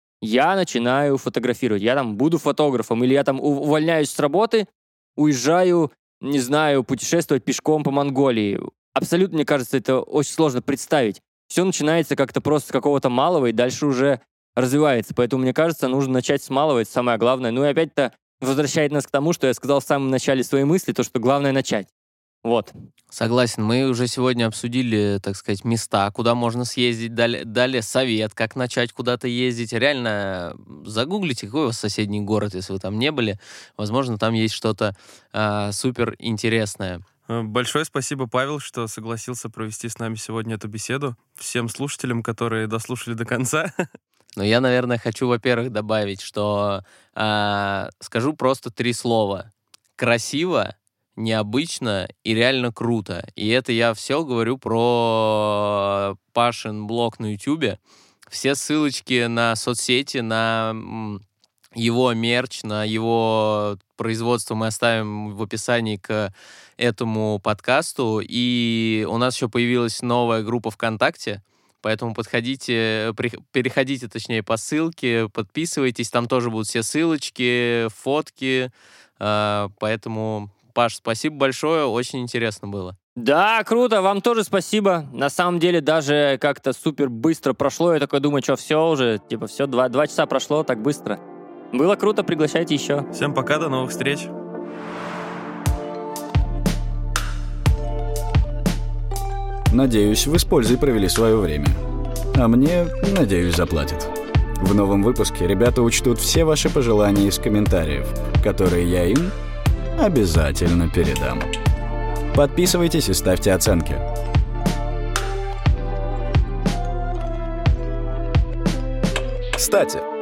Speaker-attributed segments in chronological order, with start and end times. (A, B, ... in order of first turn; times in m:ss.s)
0:00.2-0:21.9 A
0:22.4-0:22.7 A
0:23.1-0:37.0 B
0:37.3-0:43.7 C
0:44.4-1:01.2 B
1:01.7-1:23.0 B
1:23.2-1:31.2 A
1:31.7-1:33.1 A
1:33.1-1:34.3 C
1:39.7-1:41.8 D
1:42.3-1:49.3 D
1:50.0-1:51.5 D
1:52.3-1:54.0 D
1:59.6-2:00.0 D